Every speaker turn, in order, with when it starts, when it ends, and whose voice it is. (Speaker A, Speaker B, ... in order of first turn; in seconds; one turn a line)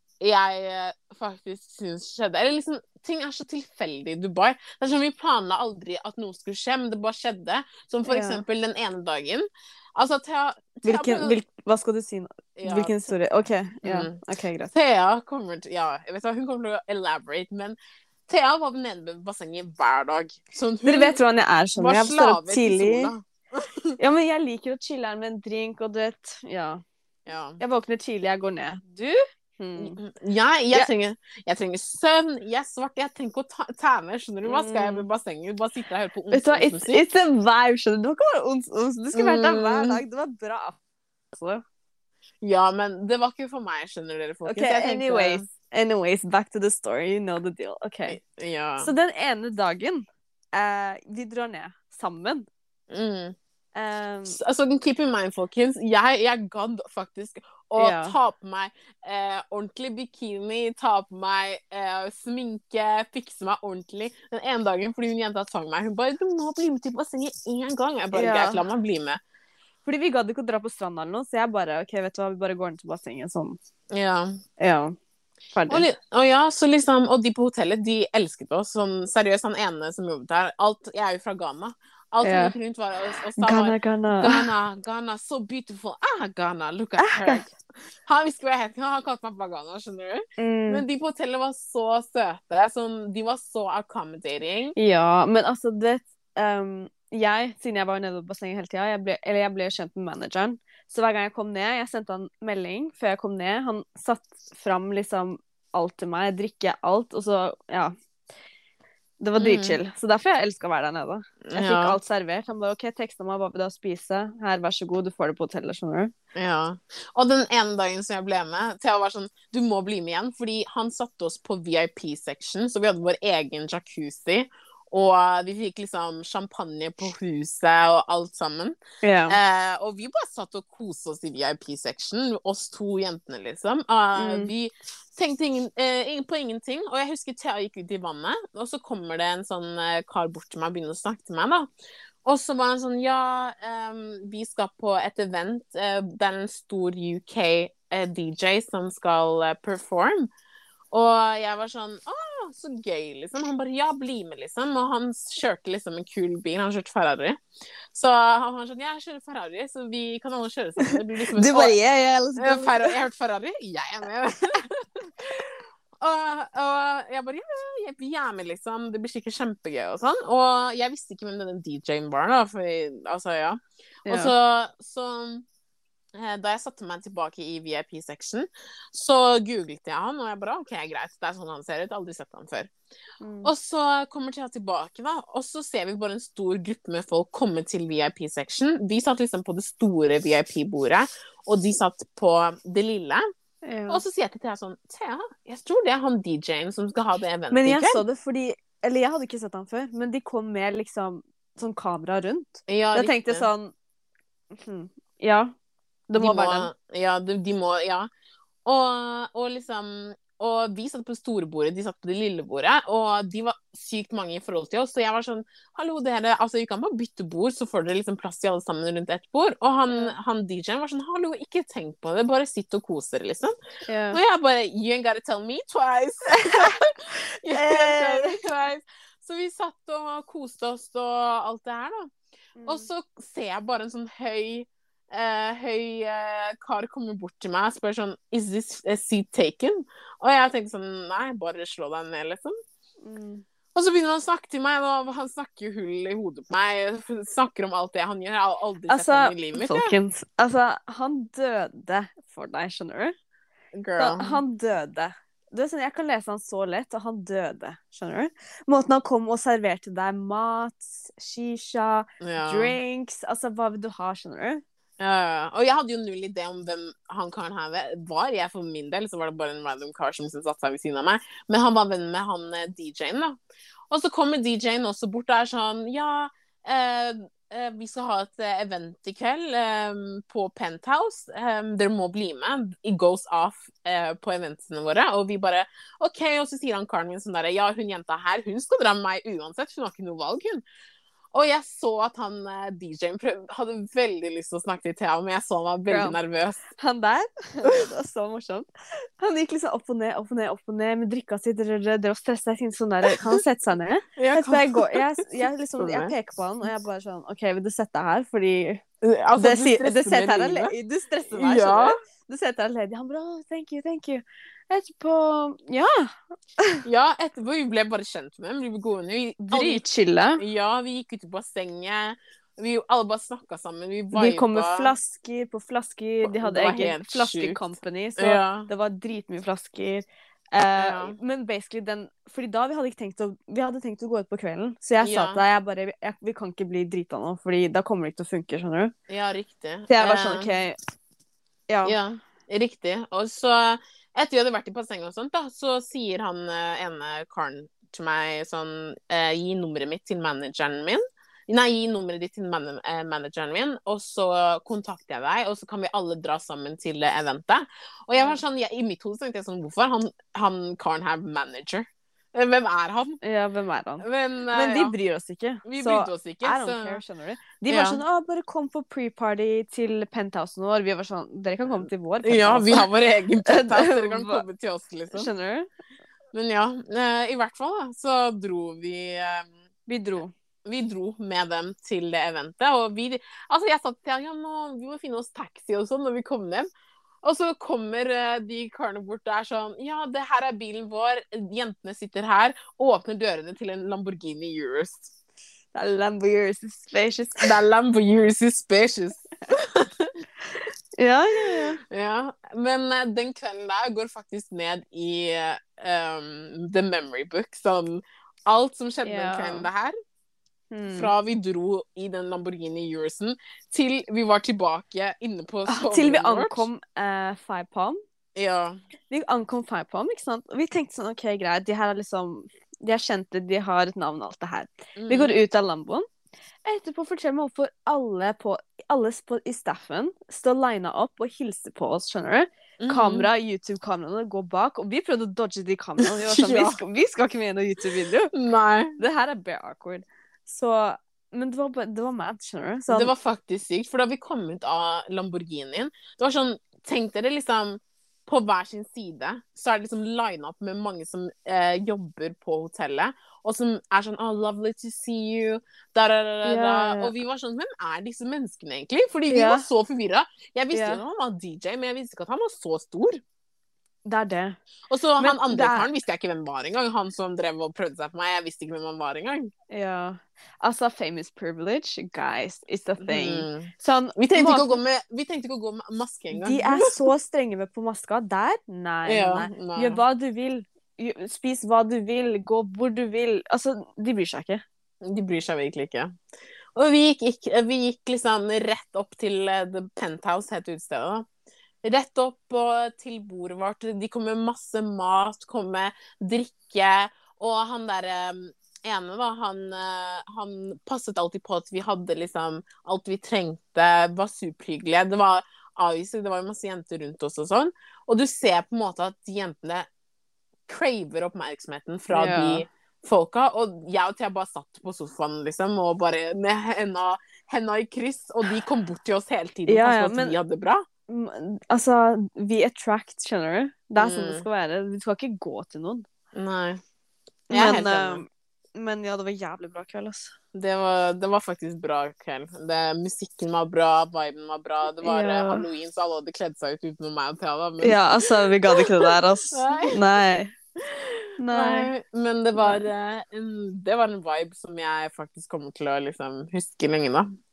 Speaker A: 0.2-11.4
Speaker B: 8.1-8.4
Speaker B: 10.8-14.7
Speaker A: 12.6-12.9
Speaker A: 13.8-14.2
Speaker A: 14.7-17.8
Speaker A: 18.3-21.2
Speaker B: 20.8-23.1
Speaker A: 21.8-24.0
Speaker B: 24.0-26.8
Speaker A: 27.2-27.6
Speaker B: 27.6-30.0
Speaker A: 29.8-37.0
Speaker B: 34.4-35.1
Speaker B: 36.3-40.8
Speaker A: 39.1-40.0
Speaker B: 41.3-41.6
Speaker A: 42.4-45.5
Speaker B: 44.5-48.2
Speaker A: 48.1-48.9
Speaker B: 48.8-52.5
Speaker A: 52.9-53.4
Speaker B: 53.7-54.4
Speaker A: 54.3-69.2
Speaker B: 57.8-58.1
Speaker B: 68.1-68.6
Speaker B: 69.8-73.6
Speaker A: 73.9-74.4
Speaker B: 74.6-74.9
Speaker B: 75.5-75.8
Speaker A: 75.7-94.7
Speaker B: 82.2-82.5
Speaker B: 83.4-84.5
Speaker B: 87.0-87.4
Speaker B: 90.4-90.8
Speaker B: 94.8-107.9
Speaker B: 109.2-116.1
Speaker A: 109.4-109.8
Speaker A: 111.4-112.0
Speaker A: 116.3-128.7
Speaker B: 129.0-129.4
Speaker A: 129.3-141.7
Speaker B: 134.2-134.5
Speaker A: 142.2-150.3
Speaker A: 150.9-157.4
Speaker A: 157.9-161.8
Speaker B: 160.8-162.9
Speaker A: 162.3-175.4
Speaker B: 174.1-174.3
Speaker A: 176.1-182.7
Speaker B: 183.2-183.5
Speaker A: 183.4-193.3
Speaker B: 193.6-194.0
Speaker A: 193.9-198.0
Speaker B: 197.5-203.7
Speaker A: 202.7-203.5
Speaker B: 204.5-205.5
Speaker B: 206.1-206.7
Speaker A: 206.2-208.1
Speaker A: 208.7-223.5
Speaker B: 219.9-220.1
Speaker B: 223.8-224.2
Speaker A: 224.1-232.1
Speaker B: 226.5-226.8
Speaker B: 227.4-228.4
Speaker B: 232.6-232.9
Speaker A: 232.6-242.6
Speaker B: 243.0-243.4
Speaker A: 243.7-249.9
Speaker B: 248.9-253.1
Speaker A: 253.7-254.4
Speaker B: 254.0-264.6
Speaker A: 262.2-262.8
Speaker A: 265.0-273.4
Speaker A: 273.9-290.6
Speaker A: 291.3-296.6
Speaker B: 295.9-296.2
Speaker B: 296.8-298.7
Speaker B: 299.2-308.8
Speaker A: 304.2-305.0
Speaker A: 305.8-306.1
Speaker A: 309.0-310.7
Speaker B: 309.4-316.8
Speaker A: 311.3-312.0
Speaker A: 316.8-319.8
Speaker B: 319.4-320.4
Speaker A: 320.4-324.9
Speaker B: 324.1-338.9
Speaker A: 326.2-328.7
Speaker A: 330.8-331.2
Speaker A: 335.0-335.4
Speaker A: 339.1-340.6
Speaker B: 339.9-340.8
Speaker B: 341.7-341.9
Speaker A: 341.8-363.2
Speaker B: 363.2-372.9
Speaker A: 364.0-364.9
Speaker A: 365.6-367.0
Speaker A: 367.7-368.0
Speaker A: 371.6-375.3
Speaker B: 373.4-374.4
Speaker B: 375.1-375.7
Speaker A: 376.3-379.5
Speaker B: 379.9-380.3
Speaker A: 380.6-386.7
Speaker A: 387.2-395.1
Speaker B: 395.7-397.5
Speaker A: 397.4-400.2
Speaker B: 400.5-401.8
Speaker A: 401.9-409.9
Speaker B: 409.0-409.7
Speaker B: 410.7-411.1
Speaker A: 410.9-416.7
Speaker B: 415.7-418.0
Speaker A: 418.4-418.8
Speaker B: 419.1-426.1
Speaker A: 424.9-425.4
Speaker B: 426.6-438.3
Speaker A: 432.8-433.3
Speaker A: 436.1-436.8
Speaker A: 438.3-439.0
Speaker B: 439.0-443.1
Speaker A: 442.9-463.2
Speaker B: 456.4-457.1
Speaker B: 459.3-459.7
Speaker B: 460.7-461.0
Speaker B: 464.0-464.6
Speaker A: 464.9-469.5
Speaker B: 465.2-465.9
Speaker B: 469.7-474.8
Speaker A: 473.0-477.0
Speaker B: 476.3-484.6
Speaker A: 479.1-480.0
Speaker A: 485.0-486.1
Speaker A: 486.7-491.3
Speaker A: 491.8-509.9
Speaker A: 510.7-520.8
Speaker B: 512.1-512.6
Speaker B: 519.7-520.4
Speaker B: 521.1-526.0
Speaker A: 524.0-524.4
Speaker A: 526.3-526.8
Speaker A: 527.5-528.2
Speaker B: 527.5-530.3
Speaker A: 530.5-540.0
Speaker B: 535.0-535.6
Speaker B: 537.8-540.5
Speaker A: 540.8-547.3
Speaker B: 541.4-541.9
Speaker B: 542.5-542.8